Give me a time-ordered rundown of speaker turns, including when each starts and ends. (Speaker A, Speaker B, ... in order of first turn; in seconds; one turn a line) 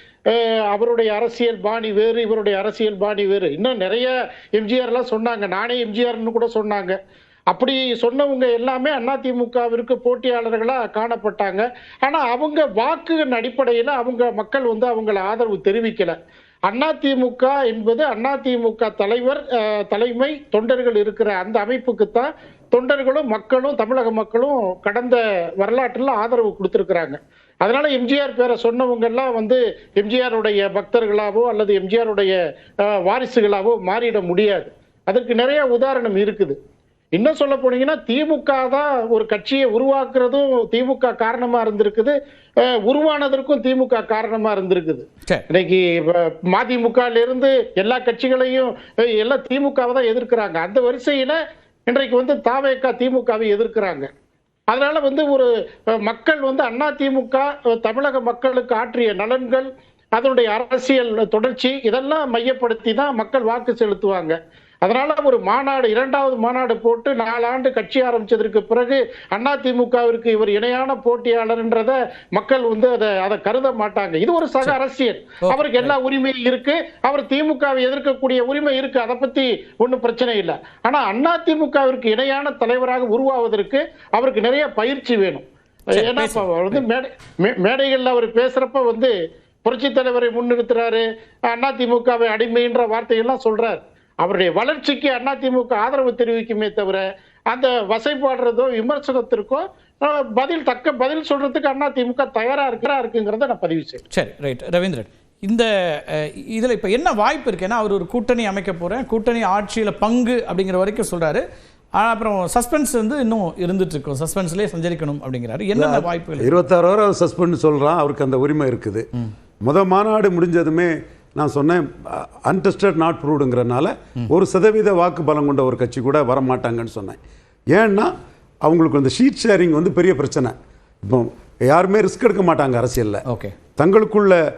Speaker A: 0.3-7.0
Speaker A: 7.5-16.2
Speaker A: 16.7-36.6
Speaker A: 37.1-54.1
Speaker A: 54.7-89.1
Speaker B: 75.4-75.9
Speaker B: 85.9-86.8
Speaker A: 89.7-104.0
Speaker B: 104.1-111.4
Speaker B: 112.0-116.7
Speaker C: 115.8-119.0
Speaker C: 119.6-127.2
Speaker C: 127.7-128.1
Speaker C: 128.6-130.5
Speaker C: 131.1-133.2
Speaker B: 133.3-133.5
Speaker C: 133.8-134.4